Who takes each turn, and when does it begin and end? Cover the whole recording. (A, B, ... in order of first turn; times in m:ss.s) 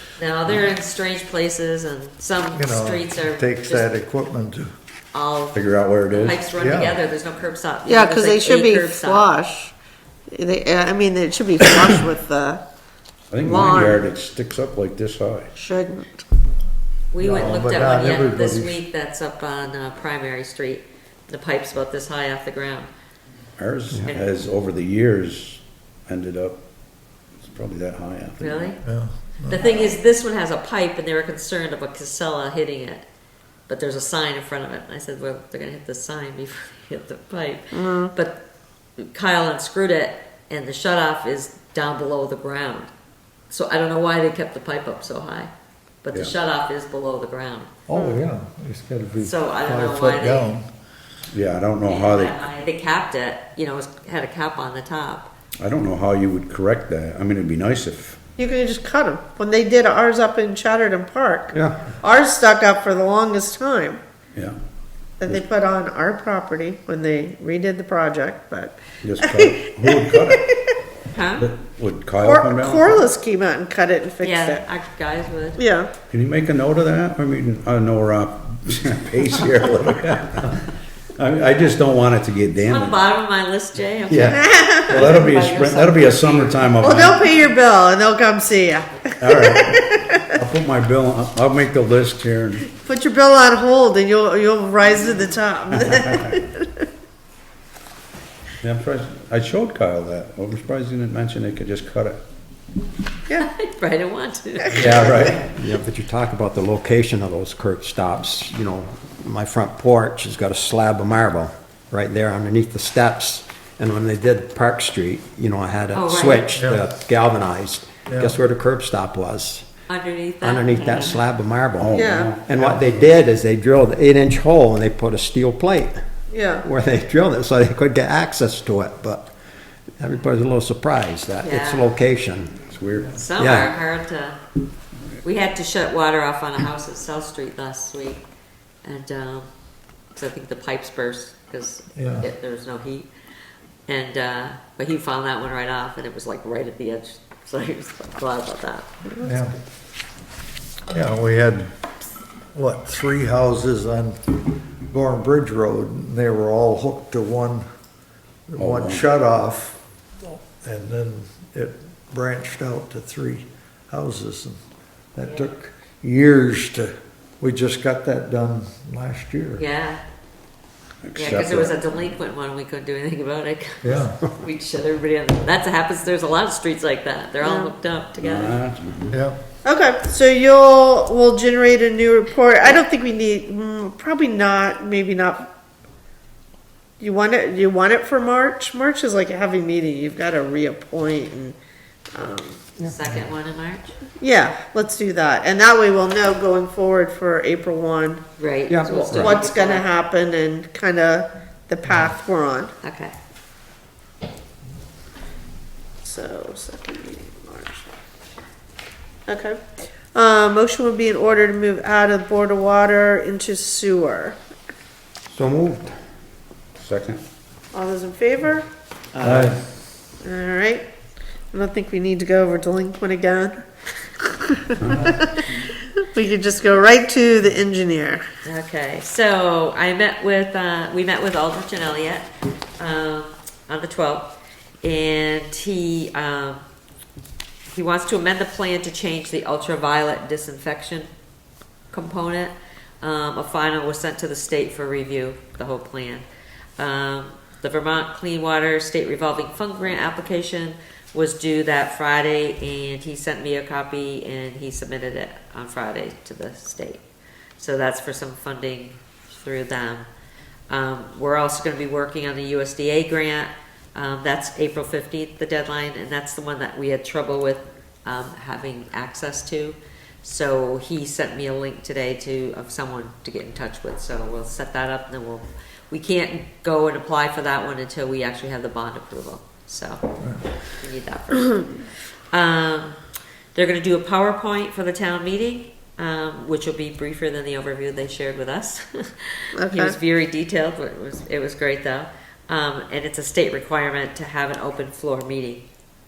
0:00.2-0:03.9 A
0:02.5-0:04.7 B
0:05.1-0:09.2 A
0:05.6-0:06.5 C
0:06.6-0:07.0 B
0:07.9-0:09.7 D
0:10.3-0:12.6 D
0:13.3-0:15.5 C
0:13.4-0:14.0 D
0:15.6-0:16.2 D
0:17.1-0:22.9 A
0:17.2-0:18.8 B
0:23.6-0:26.6 C
0:27.4-0:28.7 C
0:28.4-0:28.8 A
0:28.8-0:29.7 B
0:29.5-0:33.1 A
0:33.7-0:38.4 A
0:37.7-0:38.1 D
0:39.0-0:42.9 A
0:43.5-0:45.5 A
0:46.0-0:47.7 A
0:47.9-0:50.7 B
0:49.2-0:50.5 A
0:51.3-0:52.4 C
0:51.9-0:55.3 A
0:55.6-0:58.2 C
0:58.4-1:04.0 D
1:01.5-1:01.9 E
1:05.2-1:10.5 D
1:09.0-1:10.5 C
1:11.1-1:11.5 A
1:11.4-1:13.0 C
1:12.2-1:14.6 D
1:14.2-1:15.6 A
1:15.6-1:15.9 D
1:16.1-1:20.6 C
1:21.2-1:23.0 C
1:22.7-1:26.6 A
1:24.1-1:27.2 C
1:24.2-1:25.2 D
1:26.8-1:30.4 D
1:29.2-1:32.7 C
1:32.7-1:36.8 D
1:35.8-1:36.2 C
1:38.6-1:42.2 C
1:43.4-1:45.4 A
1:44.7-1:45.0 D
1:44.7-1:45.5 C
1:44.9-1:59.7 E
1:55.9-1:56.6 A
1:56.6-1:56.8 B
1:58.1-1:58.4 B
1:59.9-2:01.2 A
2:00.4-2:06.0 E
2:01.8-2:03.2 C
2:02.0-2:02.4 D
2:02.6-2:02.8 B
2:06.3-2:06.7 D
2:06.6-2:09.3 E
2:10.0-2:12.6 E
2:11.4-2:12.0 A
2:12.7-2:13.2 C
2:13.2-2:14.4 A
2:13.4-2:13.8 E
2:15.2-2:18.2 A
2:18.8-2:19.5 A
2:20.2-2:23.1 A
2:22.0-2:22.3 B
2:23.9-2:28.9 A
2:29.2-2:29.6 B
2:30.9-2:31.7 B
2:32.6-2:37.6 B
2:38.5-2:44.6 B
2:38.6-2:39.1 C
2:45.1-2:49.6 B
2:49.6-2:50.0 A
2:51.0-2:51.8 C
2:51.2-2:58.6 A
2:53.8-2:54.2 B
2:57.4-2:57.7 D
2:58.2-2:59.2 C
2:59.1-2:59.4 B
2:59.6-3:05.5 D
3:07.0-3:11.6 D
3:12.1-3:12.8 D
3:12.8-3:14.0 A
3:14.2-3:18.2 D
3:18.4-3:19.9 A
3:18.7-3:19.4 E
3:19.1-3:22.7 D
3:22.8-3:23.2 A
3:26.0-3:27.9 D
3:29.3-3:29.6 D
3:30.1-3:34.4 D
3:35.3-3:36.0 E
3:36.8-3:37.2 C
3:37.7-3:38.7 D
3:39.2-3:39.6 B
3:39.2-3:39.6 C
3:40.2-3:40.9 D
3:41.5-3:43.6 D
3:44.2-3:48.2 D
3:44.8-3:45.4 C
3:48.4-3:54.3 A
3:54.8-3:56.6 A
3:57.7-4:01.1 A
4:01.9-4:06.3 A
4:06.8-4:17.0 A
4:17.6-4:20.1 A
4:20.7-4:40.0 A
4:40.7-4:43.0 A
4:43.6-4:55.6 A
4:49.6-4:50.0 D